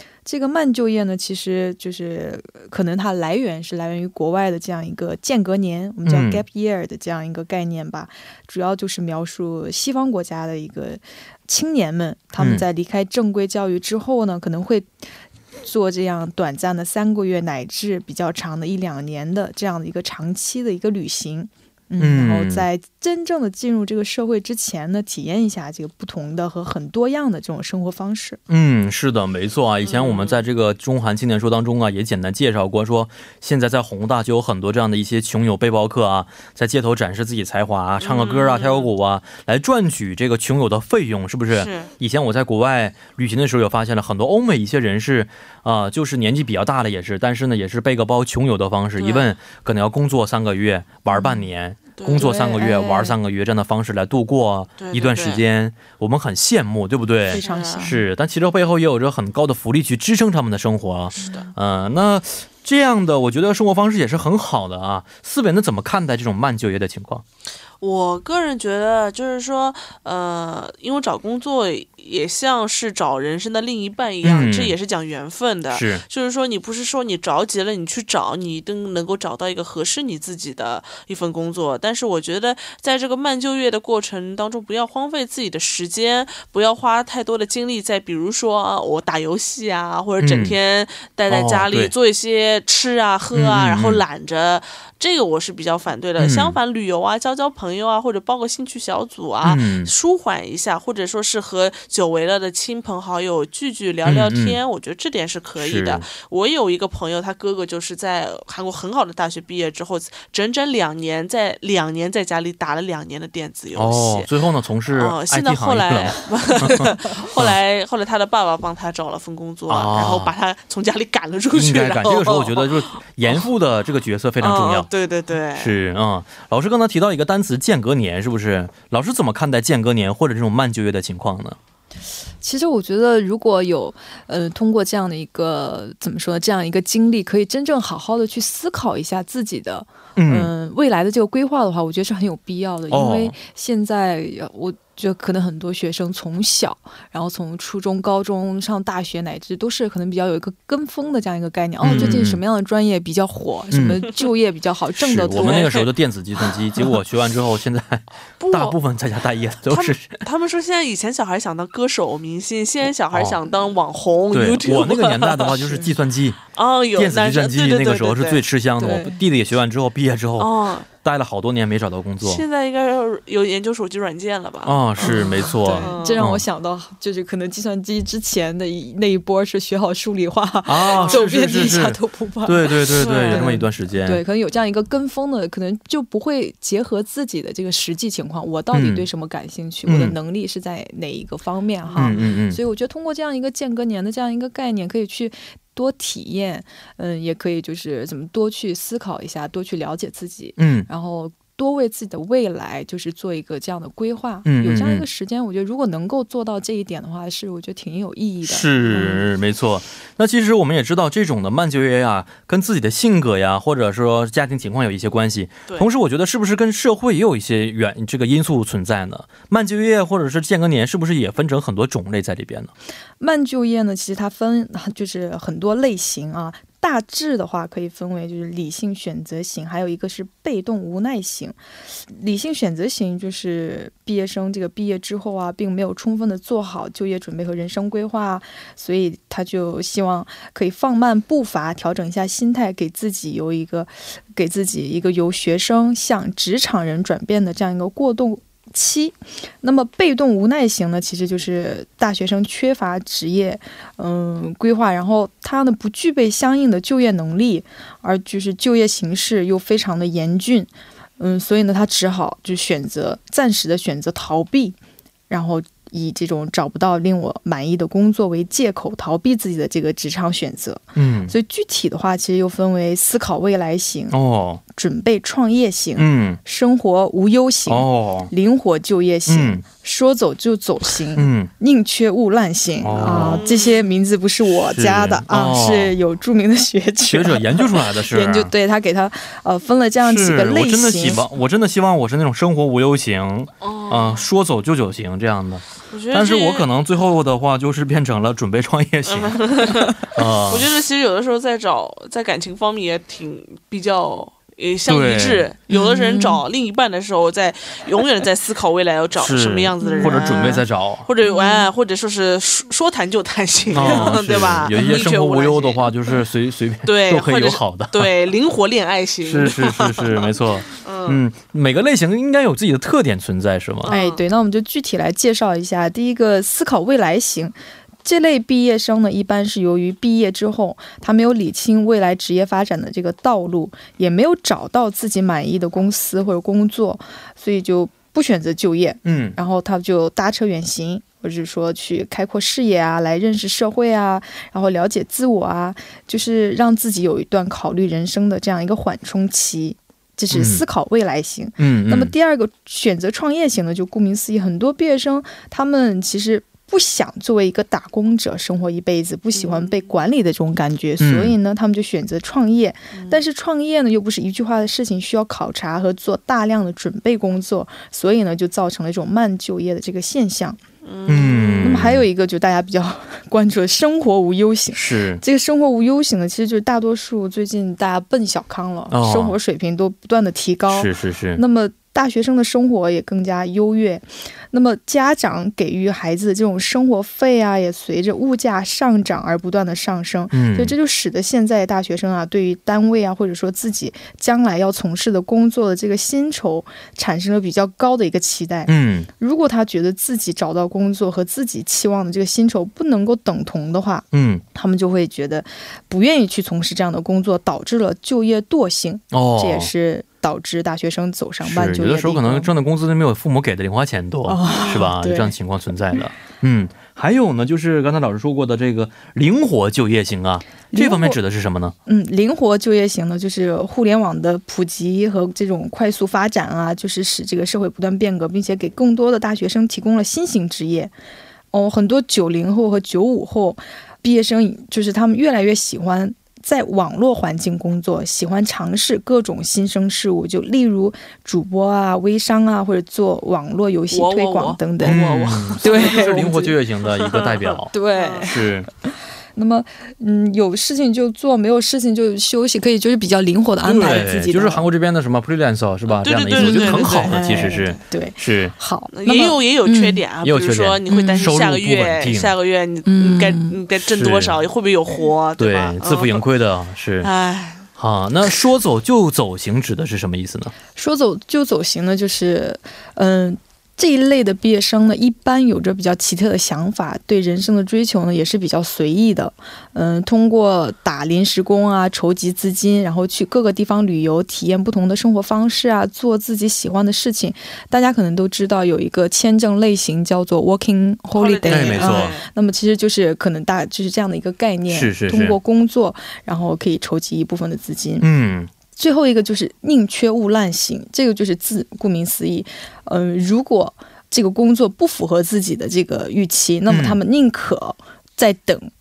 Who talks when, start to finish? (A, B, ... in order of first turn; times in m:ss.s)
0:00.2-0:14.9 A
0:06.0-0:06.4 B
0:12.4-0:12.6 B
0:15.6-0:28.4 A
0:22.0-0:22.7 B
0:28.5-1:07.2 B
0:29.8-0:30.4 C
0:38.0-0:38.9 C
0:41.5-0:41.9 C
0:49.0-0:49.3 C
0:51.1-0:51.4 A
0:52.0-0:52.3 C
0:52.1-0:53.2 A
0:54.8-0:55.4 C
0:57.3-0:58.0 A
0:57.3-0:57.9 C
1:01.2-1:01.5 A
1:07.8-1:54.3 C
1:14.2-1:14.8 B
1:15.7-1:16.0 B
1:30.2-1:30.6 B
1:31.3-1:31.9 B
1:33.3-1:34.0 B
1:36.2-1:36.6 B
1:39.4-1:39.9 B
1:44.0-1:44.6 B
1:45.6-1:46.1 B
1:53.7-1:57.6 B
1:54.9-2:03.3 C
1:59.7-2:00.3 B
2:01.5-2:04.9 B
2:04.4-2:05.8 C
2:05.5-2:11.6 B
2:12.4-2:35.8 A
2:20.2-2:20.5 B
2:22.9-2:23.3 B
2:31.8-2:32.4 B
2:31.9-2:32.2 C
2:33.7-2:34.0 B
2:35.0-2:40.2 B
2:35.3-2:35.9 C
2:38.4-2:38.8 C
2:39.6-2:45.8 C
2:43.1-2:43.4 B
2:44.3-2:46.4 B
2:46.5-2:48.4 C
2:47.0-2:52.4 B
2:48.8-2:49.2 A
2:50.4-2:50.9 C
2:52.2-2:56.2 C
2:54.6-2:56.4 B
2:55.0-3:29.2 A
3:00.6-3:04.2 B
3:00.9-3:01.2 C
3:02.9-3:03.5 C
3:08.7-3:09.1 B
3:09.8-3:10.2 B
3:12.0-3:12.6 B
3:20.6-3:20.9 B
3:24.4-3:25.0 B
3:28.4-3:42.7 B
3:43.2-3:51.6 A
3:52.1-4:24.8 A
4:25.3-4:34.2 A
4:30.9-4:31.3 B
4:34.1-4:34.6 B
4:34.7-4:51.2 A
4:36.0-4:36.4 B
4:37.7-4:38.3 B
4:39.3-4:39.6 B
4:41.2-4:41.5 B
4:42.8-4:43.4 B
4:43.0-4:43.9 C
4:44.5-4:46.0 B
4:47.1-4:48.5 B
4:50.0-5:00.7 B
4:53.6-4:54.2 C
4:55.9-4:56.7 C
4:59.1-5:16.2 C
5:04.8-5:05.5 B
5:05.7-5:06.4 A
5:09.2-5:11.1 B
5:09.8-5:10.6 A
5:11.2-5:11.7 A
5:13.7-5:18.1 B
5:13.8-5:14.1 A
5:14.8-5:15.0 A
5:16.8-5:21.2 C
5:19.2-5:23.9 B
5:23.8-5:24.2 C
5:23.9-6:10.6 A
5:39.0-5:39.4 B
5:50.3-5:50.6 B
5:51.6-5:52.1 B
5:59.3-5:59.9 C
6:01.0-6:01.3 B
6:02.9-6:03.2 C
6:10.8-6:11.8 C
6:11.1-6:12.0 B
6:11.6-6:52.5 A
6:14.7-6:15.2 B
6:18.9-6:19.4 B
6:20.7-6:21.4 B
6:30.3-6:30.7 B
6:38.7-6:39.1 B
6:44.1-6:44.4 B
6:49.1-6:49.7 B
6:51.4-7:01.7 B
6:54.3-6:55.3 A
6:54.4-6:54.8 C
7:00.7-7:01.2 A
7:01.8-7:10.9 A
7:11.5-7:25.0 A
7:23.9-7:26.3 C
7:24.8-7:27.7 B
7:25.6-7:26.6 A
7:26.8-7:28.3 C
7:27.7-7:28.4 A
7:28.2-7:28.7 B
7:29.3-7:34.7 A
7:33.6-7:38.5 B
7:35.9-7:37.8 C
7:36.3-7:40.0 A
7:38.9-7:46.2 C
7:40.2-7:42.3 B
7:40.9-7:41.2 A
7:42.8-7:43.6 A
7:43.9-7:44.4 B
7:45.4-7:47.1 B
7:47.0-7:47.6 C
7:47.8-7:50.5 B
7:50.7-8:18.1 A
8:11.1-8:12.3 C
8:11.5-8:12.2 B
8:14.7-8:15.4 B
8:18.0-8:18.5 B
8:18.7-8:28.7 A
8:26.7-8:27.0 B